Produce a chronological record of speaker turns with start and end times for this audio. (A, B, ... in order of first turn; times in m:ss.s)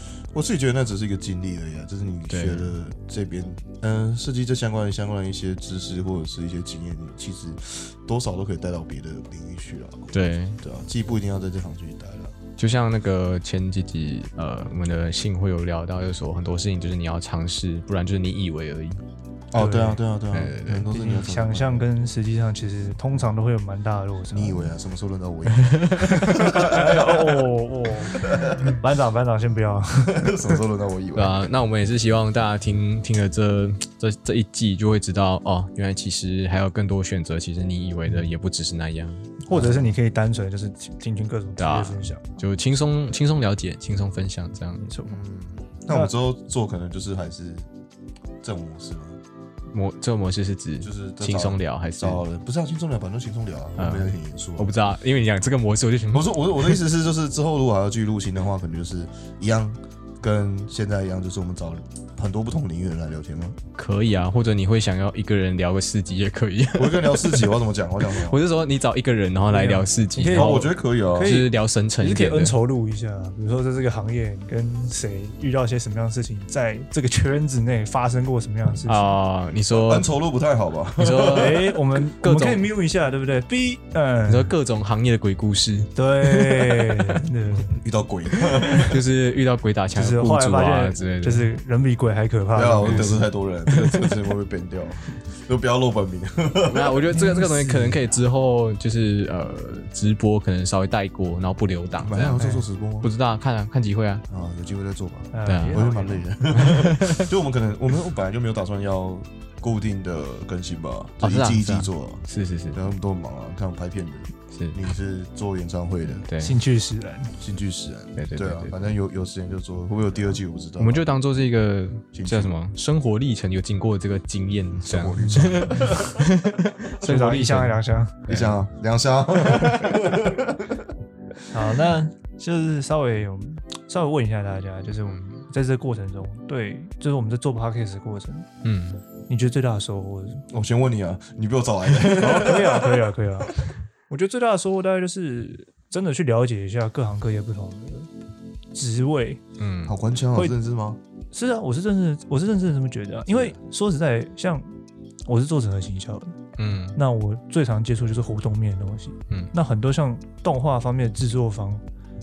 0:00.3-0:12.3 A
0:02.3-0:02.7 B
0:10.1-0:10.6 B
0:12.6-0:19.0 B
0:19.5-0:21.9 A
0:19.6-0:20.0 C
0:20.3-0:20.9 B
0:20.9-0:24.7 C
0:24.3-0:27.4 A
0:25.6-0:26.3 B
0:26.2-0:30.5 C
0:28.1-0:28.7 A
0:30.0-0:31.5 A
0:31.1-0:39.9 B
0:39.4-0:42.2 C
0:41.6-0:44.8 B
0:44.8-0:45.2 C
0:45.1-0:47.7 A
0:48.4-0:49.2 A
0:49.7-0:52.2 B
0:50.8-0:54.7 A
0:53.8-0:56.8 B
0:56.1-1:03.6 A
1:03.8-1:10.7 B
1:06.8-1:08.4 A
1:09.5-1:19.2 C
1:10.3-1:11.4 A
1:11.2-1:12.5 B
1:18.8-1:20.1 B
1:19.7-1:21.6 A
1:21.0-1:22.7 B
1:21.3-1:24.5 C
1:24.3-1:27.2 B
1:25.9-1:27.7 C
1:27.7-1:29.0 A
1:28.4-1:31.5 B
1:29.9-1:33.2 C
1:32.5-1:37.0 A
1:32.8-1:33.2 B
1:33.7-1:34.2 B
1:36.6-1:42.4 B
1:37.1-1:38.2 C
1:42.0-1:43.1 A
1:42.4-1:42.6 C
1:43.0-1:44.2 B
1:44.3-1:56.2 A
1:45.3-1:46.3 C
1:45.5-1:45.8 B
1:46.5-1:47.3 B
1:51.2-1:52.8 B
1:54.5-1:54.8 B
1:56.2-1:56.5 B
1:56.4-1:57.3 C
1:57.4-2:01.1 A
1:58.2-1:58.7 B
2:00.8-2:08.6 B
2:02.1-2:02.5 A
2:04.7-2:06.2 A
2:05.2-2:05.9 C
2:07.0-2:08.2 C
2:08.3-2:10.8 A
2:09.4-2:10.0 B
2:11.5-2:18.5 C
2:15.0-2:15.4 B
2:18.6-2:19.0 B
2:19.3-2:20.4 C
2:20.5-2:23.1 A
2:22.1-2:23.6 C
2:24.1-2:28.1 C
2:28.7-2:29.4 C
2:29.6-2:30.0 B
2:29.8-2:31.0 A
2:31.3-2:34.7 C
2:35.3-2:36.4 C
2:36.6-2:37.0 B
2:36.9-2:41.8 C